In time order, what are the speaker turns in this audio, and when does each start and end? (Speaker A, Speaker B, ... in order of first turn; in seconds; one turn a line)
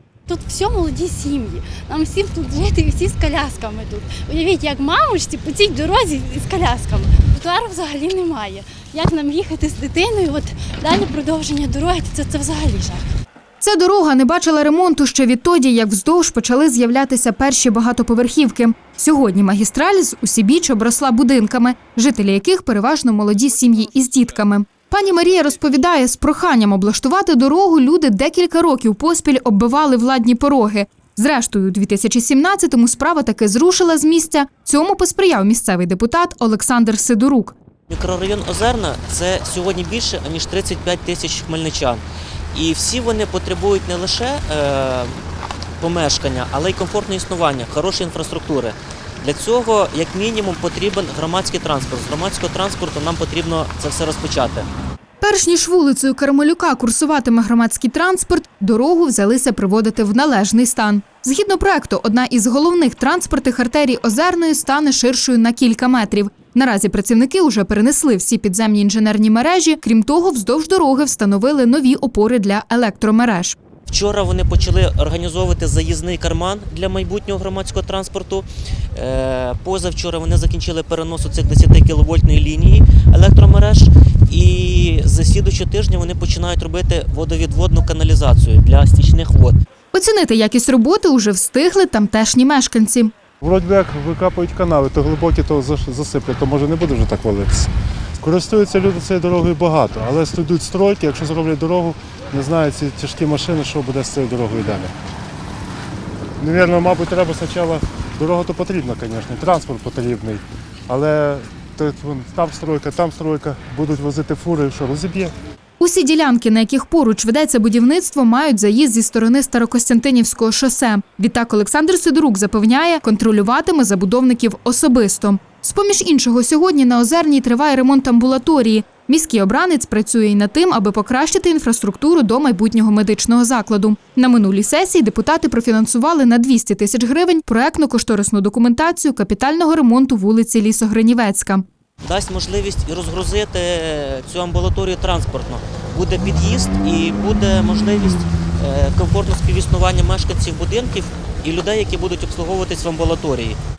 Speaker A: 0.3-13.1
Speaker B: 13.6-37.5
Speaker C: 37.9-42.0
Speaker C: 42.5-45.2
Speaker C: 45.8-54.7
Speaker B: 55.2-73.5
Speaker C: 73.9-89.6
Speaker B: 89.9-93.1
Speaker D: 93.4-104.9
Speaker D: 106.4-115.3
Speaker B: 115.8-141.7
Speaker C: 142.0-153.6